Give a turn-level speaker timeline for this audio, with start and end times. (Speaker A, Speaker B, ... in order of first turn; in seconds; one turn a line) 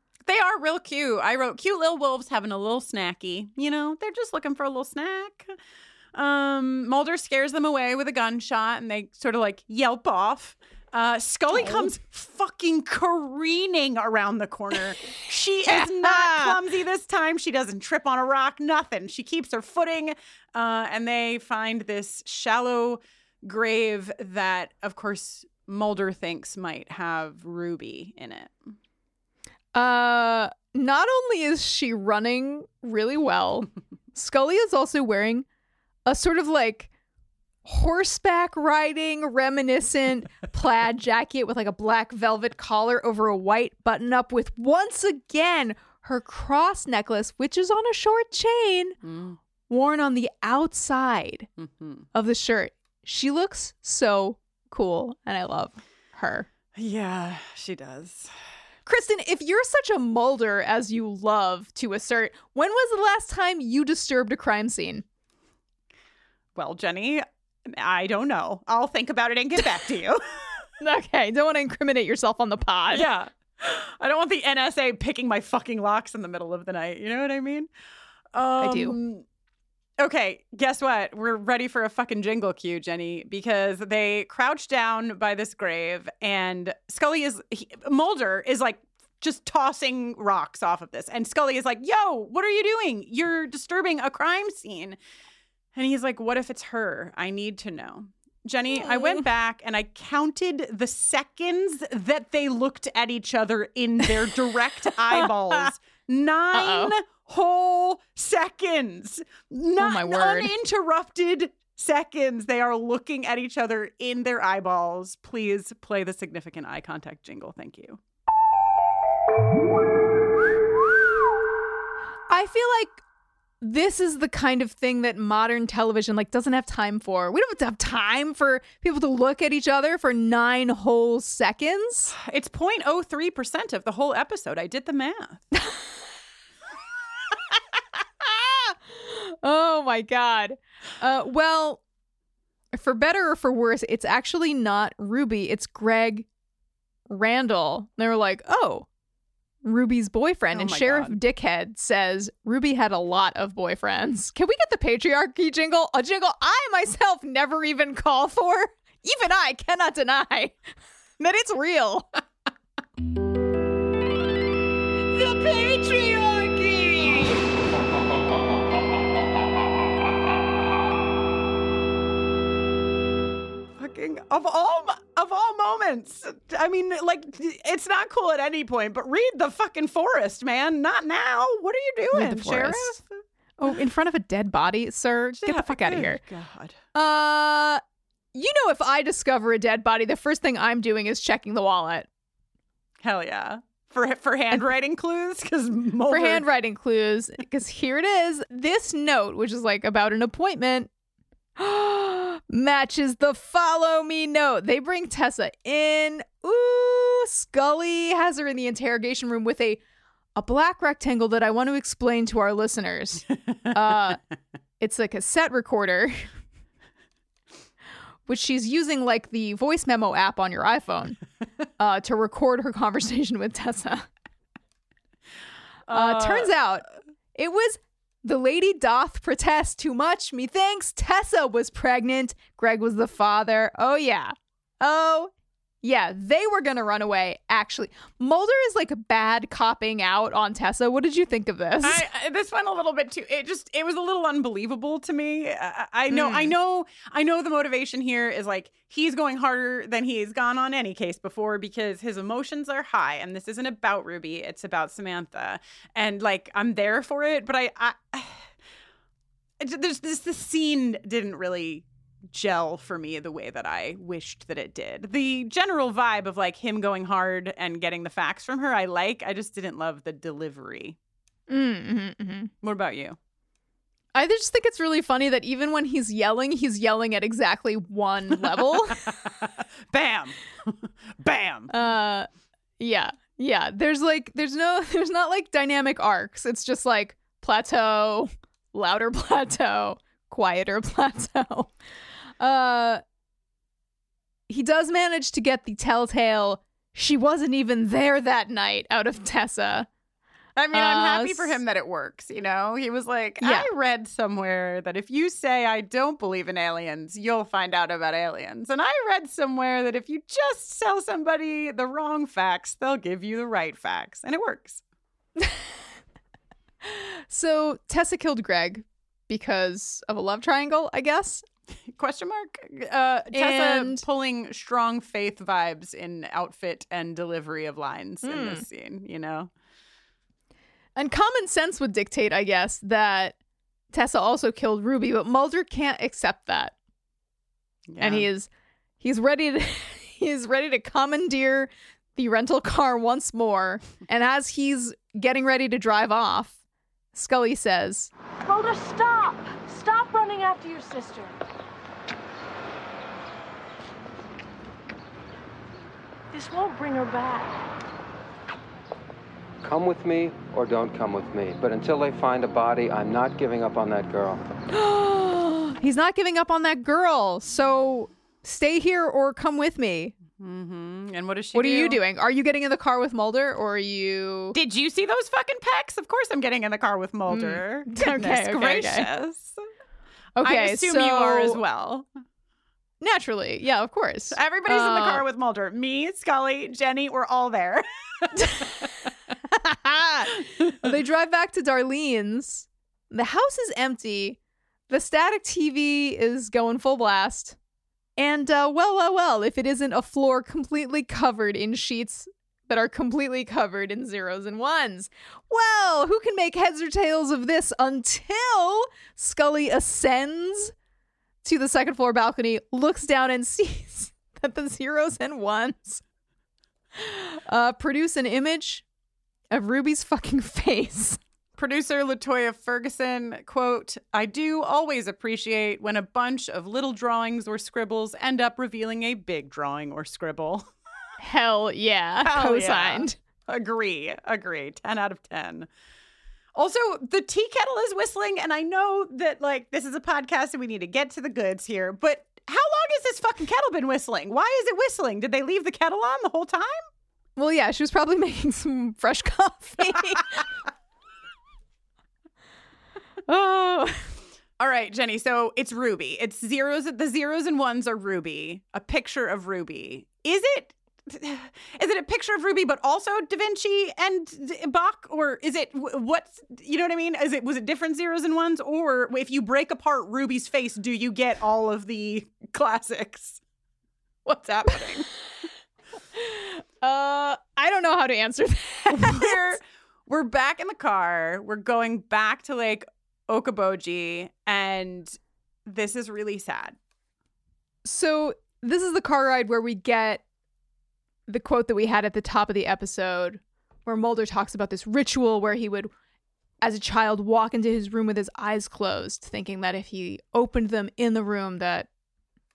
Speaker A: 0.3-5.5
Speaker A: 6.2-28.7
Speaker B: 11.5-11.9
Speaker B: 15.7-16.6
Speaker B: 29.7-35.5
Speaker B: 36.1-36.9
Speaker B: 37.6-49.0
Speaker A: 49.0-49.4
Speaker B: 49.7-51.5
Speaker A: 51.6-52.1
Speaker B: 52.1-56.5
Speaker A: 56.8-58.3
Speaker B: 58.9-65.0
Speaker A: 66.6-70.5
Speaker B: 70.8-73.0
Speaker A: 72.9-77.7
Speaker A: 78.3-79.2
Speaker B: 78.6-79.0
Speaker A: 80.0-95.0
Speaker A: 95.8-118.0
Speaker B: 98.7-99.2
Speaker B: 105.1-105.7
Speaker B: 106.5-106.9
Speaker B: 109.8-110.5
Speaker B: 122.3-123.0
Speaker B: 123.6-132.2
Speaker A: 132.2-135.4
Speaker B: 135.6-135.8
Speaker B: 138.2-141.8
Speaker B: 142.7-146.3
Speaker B: 147.1-148.9
Speaker B: 149.6-160.6
Speaker A: 150.5-151.2
Speaker B: 161.2-162.1
Speaker C: 165.3-167.3
Speaker A: 173.8-183.2
Speaker B: 182.1-183.0
Speaker B: 183.6-186.2
Speaker A: 185.4-186.8
Speaker B: 186.9-187.8
Speaker B: 188.3-192.1
Speaker A: 193.0-196.4
Speaker B: 196.1-200.9
Speaker B: 201.6-209.8
Speaker B: 210.4-214.2
Speaker B: 214.8-216.3
Speaker B: 218.3-221.2
Speaker B: 221.8-224.1
Speaker A: 225.9-226.5
Speaker B: 225.9-226.8
Speaker B: 227.4-235.3
Speaker B: 235.8-242.0
Speaker A: 241.8-258.5
Speaker B: 246.1-246.5
Speaker A: 259.6-271.0
Speaker B: 271.5-272.5
Speaker A: 272.6-273.2
Speaker B: 274.1-279.0
Speaker A: 278.4-281.7
Speaker B: 281.7-282.3
Speaker B: 282.8-291.7
Speaker B: 292.4-293.0
Speaker B: 294.5-299.9
Speaker A: 300.6-314.8
Speaker B: 300.7-301.6
Speaker B: 303.4-303.7
Speaker B: 316.9-321.4
Speaker A: 321.9-329.5
Speaker B: 323.3-324.0
Speaker B: 328.2-328.6
Speaker B: 331.0-333.4
Speaker B: 333.9-336.7
Speaker A: 337.9-338.3
Speaker B: 338.0-338.5
Speaker B: 339.0-346.6
Speaker B: 347.1-348.1
Speaker C: 348.4-351.4
Speaker C: 356.3-357.7
Speaker D: 359.6-364.5
Speaker B: 364.7-370.1
Speaker A: 370.4-372.0
Speaker B: 371.5-374.6
Speaker A: 374.5-379.6
Speaker B: 377.3-379.1
Speaker B: 380.4-381.6
Speaker A: 380.4-382.1
Speaker B: 383.0-385.2
Speaker A: 384.3-389.1
Speaker B: 388.4-388.7
Speaker B: 389.5-394.4
Speaker A: 390.6-390.9
Speaker B: 394.9-397.6
Speaker B: 398.2-410.7
Speaker B: 411.4-416.0
Speaker B: 417.0-418.8
Speaker B: 419.5-421.2
Speaker A: 421.6-430.7
Speaker B: 431.2-433.2
Speaker A: 432.2-435.7
Speaker A: 436.6-446.9
Speaker B: 447.4-450.4
Speaker B: 453.3-454.1
Speaker A: 454.6-473.4
Speaker A: 474.3-475.1
Speaker B: 476.1-479.6
Speaker A: 478.9-486.8
Speaker B: 487.9-490.2
Speaker B: 491.3-495.9
Speaker B: 496.6-501.9